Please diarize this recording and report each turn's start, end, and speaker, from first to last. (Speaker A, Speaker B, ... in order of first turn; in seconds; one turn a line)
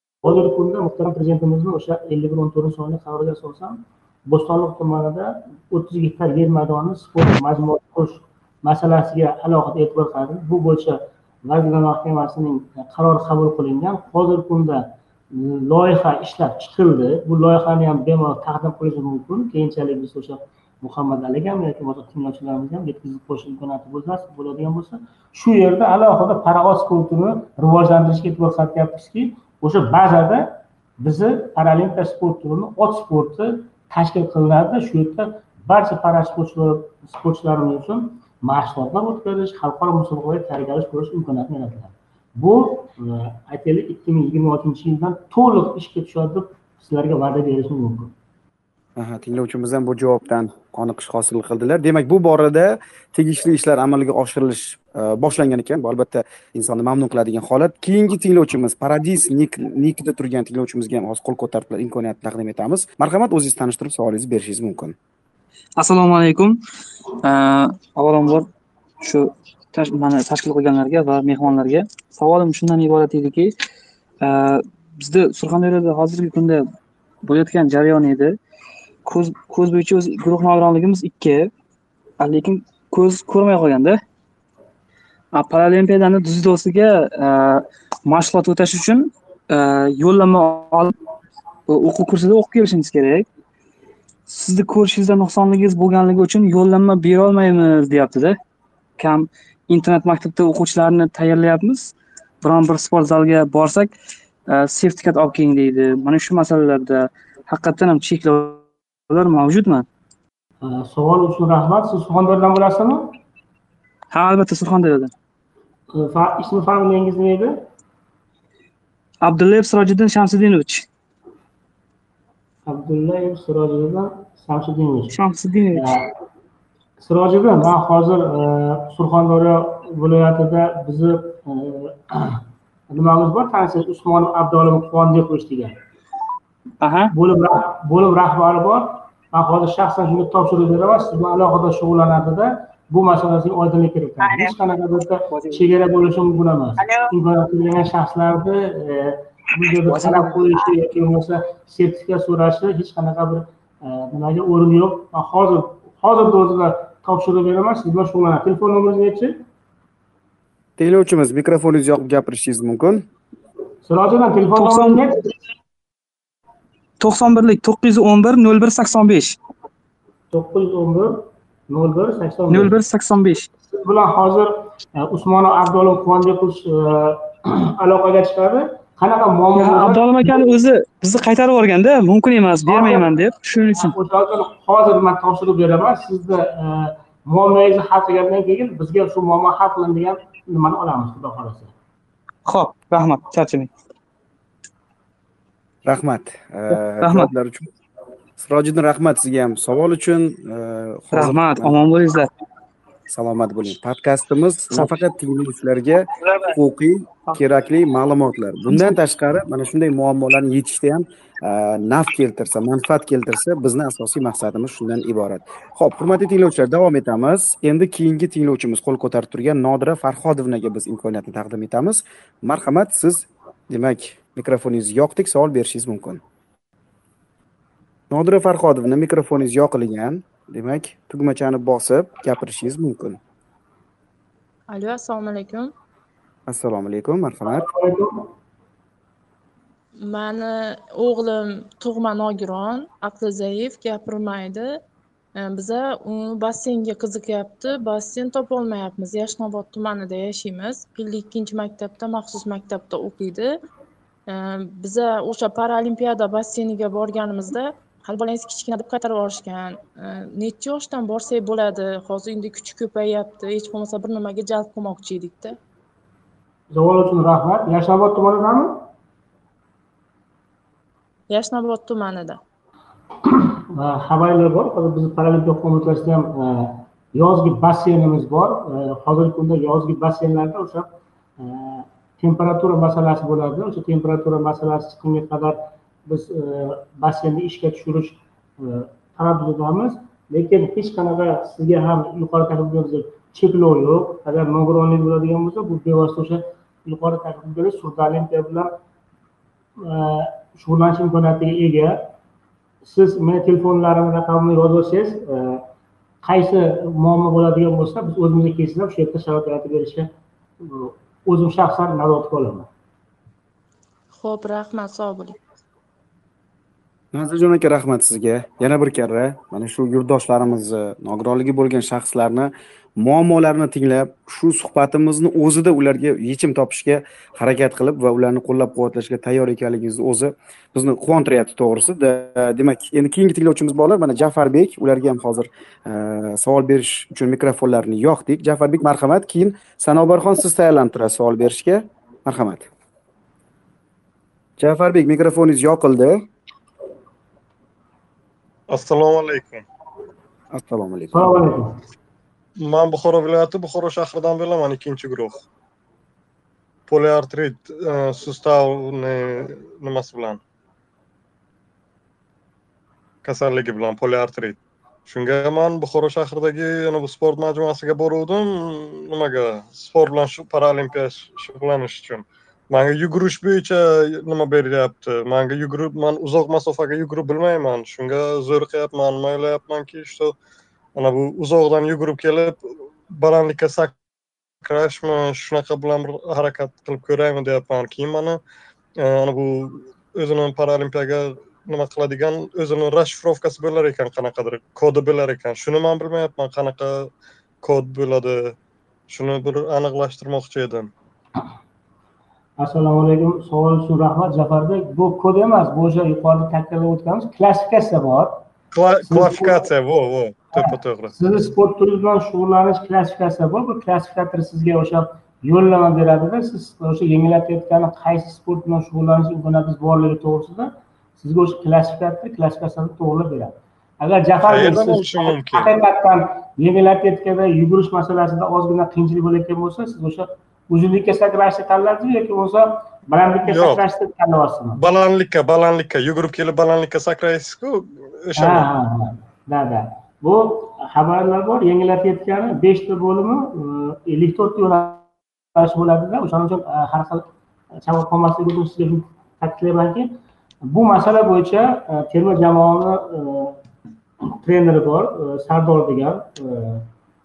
Speaker A: 0.2-48.1
Speaker B: 49.0-65.0
Speaker C: 65.8-66.5
Speaker C: 67.3-68.4
Speaker C: 69.0-73.5
Speaker C: 74.2-76.6
Speaker C: 77.2-78.3
Speaker C: 79.0-81.5
Speaker C: 82.2-84.0
Speaker C: 85.3-87.5
Speaker C: 88.1-90.9
Speaker C: 91.7-93.2
Speaker C: 94.3-98.3
Speaker C: 99.0-101.9
Speaker C: 102.4-103.9
Speaker C: 104.5-109.8
Speaker A: 110.6-113.2
Speaker C: 114.1-115.1
Speaker A: 115.9-117.6
Speaker C: 119.2-120.8
Speaker A: 122.7-125.1
Speaker C: 125.1-125.9
Speaker A: 125.7-126.1
Speaker A: 127.0-135.8
Speaker C: 136.8-137.1
Speaker A: 137.1-159.3
Speaker C: 144.2-144.6
Speaker C: 145.3-145.6
Speaker C: 149.9-150.4
Speaker B: 160.8-163.1
Speaker A: 163.8-165.2
Speaker C: 164.6-165.0
Speaker C: 167.0-169.3
Speaker A: 170.3-172.8
Speaker C: 172.5-173.4
Speaker A: 173.7-180.0
Speaker C: 179.6-183.9
Speaker A: 182.7-183.1
Speaker A: 183.8-191.7
Speaker C: 192.5-193.7
Speaker B: 195.8-197.7
Speaker C: 197.0-197.3
Speaker B: 198.4-201.8
Speaker C: 201.1-202.3
Speaker B: 203.1-226.2
Speaker C: 208.7-208.9
Speaker B: 228.1-233.2
Speaker D: 234.7-235.7
Speaker B: 236.5-237.7
Speaker A: 237.6-238.3
Speaker D: 240.0-244.8
Speaker D: 245.3-253.6
Speaker D: 254.3-265.6
Speaker A: 266.7-268.9
Speaker D: 271.3-272.4
Speaker A: 273.3-298.7
Speaker A: 299.8-302.1
Speaker A: 302.8-305.6
Speaker A: 306.2-310.1
Speaker A: 310.6-312.7
Speaker D: 314.1-315.4
Speaker B: 317.1-342.7
Speaker B: 344.6-346.2
Speaker E: 348.7-349.6
Speaker B: 350.5-351.4
Speaker A: 351.1-351.8
Speaker E: 352.6-355.4
Speaker E: 356.9-360.4
Speaker E: 363.2-380.3
Speaker E: 380.9-384.0
Speaker E: 384.6-388.4
Speaker E: 389.0-397.1
Speaker E: 397.6-398.6
Speaker E: 399.1-400.9
Speaker A: 402.6-408.4
Speaker E: 408.7-411.1
Speaker A: 409.1-409.6
Speaker A: 410.5-434.8
Speaker E: 424.4-425.7
Speaker E: 433.5-433.8
Speaker E: 434.8-438.7
Speaker A: 438.4-450.1
Speaker A: 450.7-453.6
Speaker A: 454.4-456.9